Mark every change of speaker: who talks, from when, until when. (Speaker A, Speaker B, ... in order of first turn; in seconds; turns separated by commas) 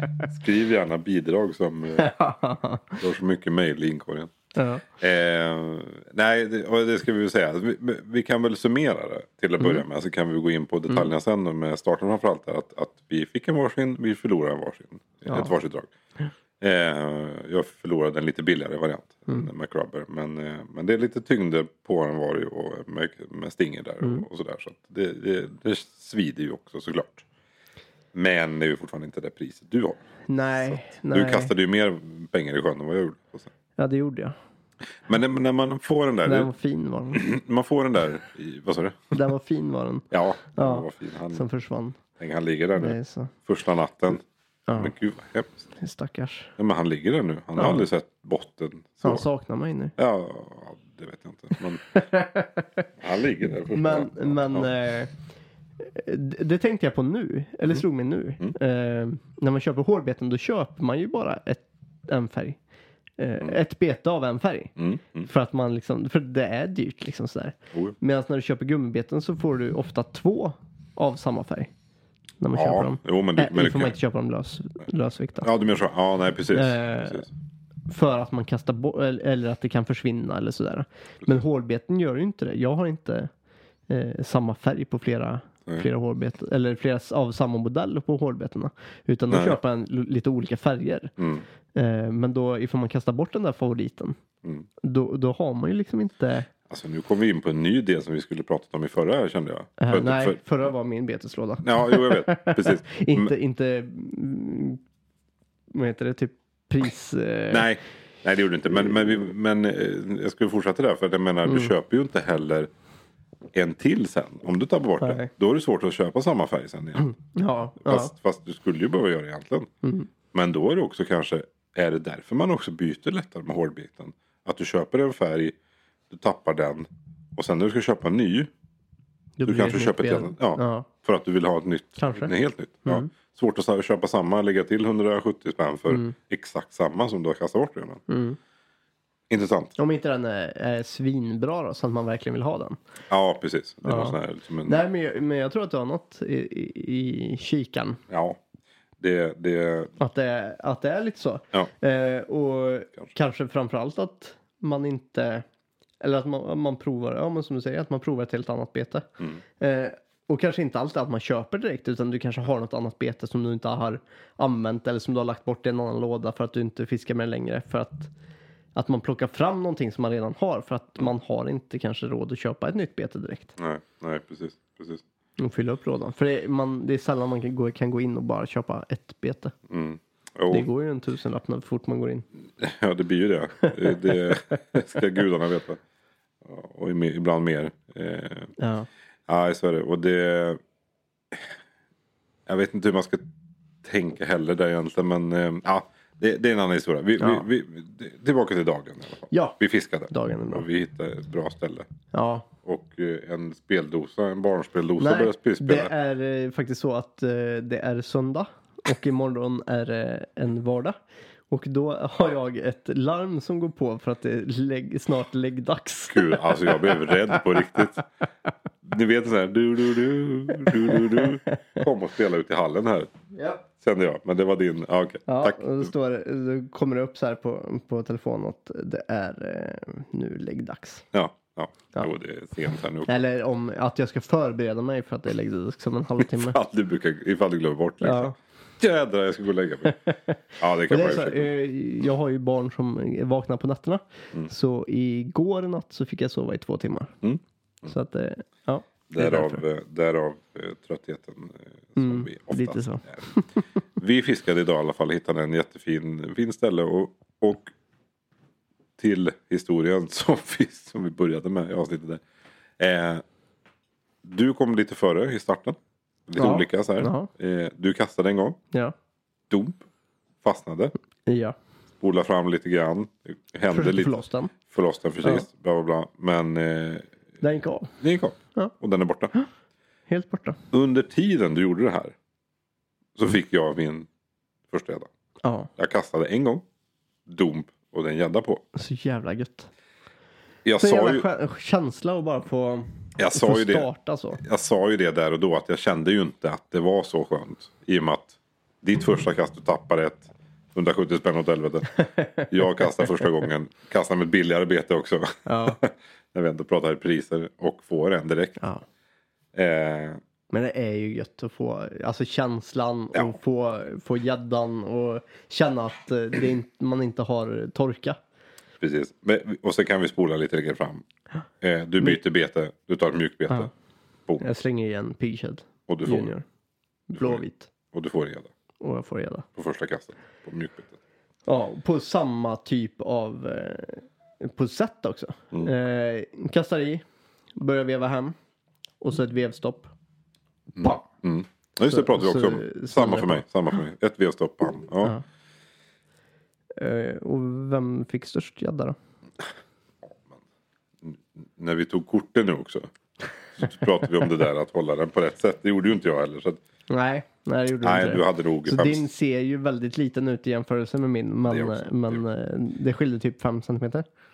Speaker A: 0.2-2.1, Speaker B: 2.0-3.0, Speaker A: 3.0-4.3, Speaker B: 4.5-4.8, Speaker A: 5.0-15.9, Speaker B: 15.2-15.5, Speaker A: 16.6-27.2, Speaker A: 28.1-30.0, Speaker B: 30.3-31.5, Speaker A: 30.5-33.5, Speaker B: 33.8-34.4, Speaker A: 35.0-36.5, Speaker B: 36.2-37.2, Speaker A: 37.1-39.2, Speaker B: 39.1-42.0, Speaker A: 40.1-41.4, Speaker A: 42.2-45.6, Speaker B: 42.8-43.3, Speaker B: 44.7-44.9, Speaker B: 45.7-46.5, Speaker A: 46.6-49.2, Speaker B: 47.6-47.9, Speaker B: 49.0-49.9, Speaker A: 50.0-51.9, Speaker B: 51.9-52.8, Speaker A: 53.0-54.7, Speaker B: 53.7-55.1, Speaker B: 55.8-62.6, Speaker B: 63.2-71.7, Speaker A: 64.8-65.3, Speaker B: 72.4-75.5, Speaker A: 72.5-74.0, Speaker A: 75.4-77.3, Speaker B: 76.5-77.3, Speaker B: 77.9-83.3, Speaker B: 83.9-91.1, Speaker A: 89.3-89.6, Speaker A: 91.2-91.4, Speaker B: 91.7-94.2, Speaker B: 94.8-96.5, Speaker A: 96.7-100.4, Speaker B: 99.8-104.8, Speaker A: 101.6-103.3, Speaker B: 105.7-107.7, Speaker A: 107.5-112.7, Speaker B: 111.4-111.7, Speaker A: 113.5-117.1, Speaker B: 115.0-115.3, Speaker B: 117.0-118.1, Speaker A: 117.8-119.7, Speaker B: 119.8-120.1, Speaker A: 120.3-125.5, Speaker A: 126.1-128.5, Speaker B: 129.4-130.9, Speaker A: 129.4-138.0, Speaker B: 132.0-132.3, Speaker B: 135.9-136.1, Speaker B: 138.1-138.4, Speaker A: 139.3-139.7, Speaker B: 139.8-142.8, Speaker A: 143.1-144.8, Speaker B: 143.8-148.0, Speaker A: 148.1-148.4, Speaker A: 149.0-149.9, Speaker B: 150.0-155.4, Speaker B: 156.0-159.1, Speaker B: 159.6-168.1, Speaker B: 168.7-173.5, Speaker A: 173.6-175.0, Speaker B: 175.4-179.5, Speaker A: 179.7-180.7, Speaker B: 180.5-182.2, Speaker A: 182.6-185.8, Speaker B: 183.6-184.6, Speaker A: 186.4-188.5, Speaker B: 188.6-188.9, Speaker A: 189.3-190.6, Speaker A: 192.5-193.2, Speaker A: 193.8-201.8, Speaker B: 197.2-197.5, Speaker B: 199.3-199.6, Speaker B: 200.1-200.7, Speaker B: 202.1-202.5, Speaker A: 202.6-205.9, Speaker B: 205.0-211.0, Speaker B: 211.5-217.9, Speaker A: 216.1-218.0, Speaker A: 218.8-223.1, Speaker B: 220.7-221.5, Speaker B: 223.3-223.6, Speaker A: 223.8-225.9, Speaker B: 225.3-231.1, Speaker A: 231.1-233.1, Speaker B: 233.1-236.6, Speaker A: 236.2-240.0, Speaker B: 238.0-238.3, Speaker B: 239.9-247.1, Speaker A: 240.6-241.5, Speaker A: 247.2-247.9, Speaker B: 247.9-249.6, Speaker A: 249.1-253.2, Speaker B: 251.9-253.6, Speaker A: 254.0-257.7, Speaker A: 259.0-262.2, Speaker A: 262.8-263.2, Speaker A: 264.2-265.8, Speaker A: 266.3-268.6, Speaker B: 266.4-267.3, Speaker A: 269.5-269.8, Speaker A: 270.4-270.9, Speaker B: 271.3-271.6, Speaker A: 272.0-274.1, Speaker B: 273.7-274.5, Speaker A: 274.7-277.1, Speaker B: 277.4-277.9, Speaker A: 278.0-279.3, Speaker B: 280.1-280.6, Speaker A: 280.7-282.1, Speaker A: 283.1-284.1, Speaker A: 284.7-285.1, Speaker B: 285.4-285.7, Speaker A: 285.8-286.6, Speaker A: 287.3-288.6, Speaker B: 288.7-289.7, Speaker A: 290.6-291.3, Speaker B: 290.8-294.4, Speaker A: 293.2-293.9, Speaker A: 294.4-308.6, Speaker B: 302.0-303.2, Speaker B: 305.4-305.8, Speaker A: 309.5-310.2, Speaker B: 310.5-318.2, Speaker A: 318.8-321.0, Speaker A: 321.6-323.7, Speaker B: 324.4-326.4, Speaker A: 325.9-326.3, Speaker B: 327.1-327.7, Speaker A: 327.1-327.4, Speaker A: 327.9-328.5, Speaker B: 328.8-329.4, Speaker A: 329.6-330.9, Speaker B: 331.4-337.0, Speaker B: 337.6-338.3, Speaker B: 339.0-339.9, Speaker A: 340.8-345.1, Speaker B: 340.8-341.0, Speaker B: 341.8-343.4, Speaker B: 346.8-348.9, Speaker A: 350.1-350.4, Speaker A: 351.0-352.9, Speaker A: 353.5-356.6, Speaker B: 356.9-364.0, Speaker A: 357.8-359.1, Speaker A: 361.5-362.2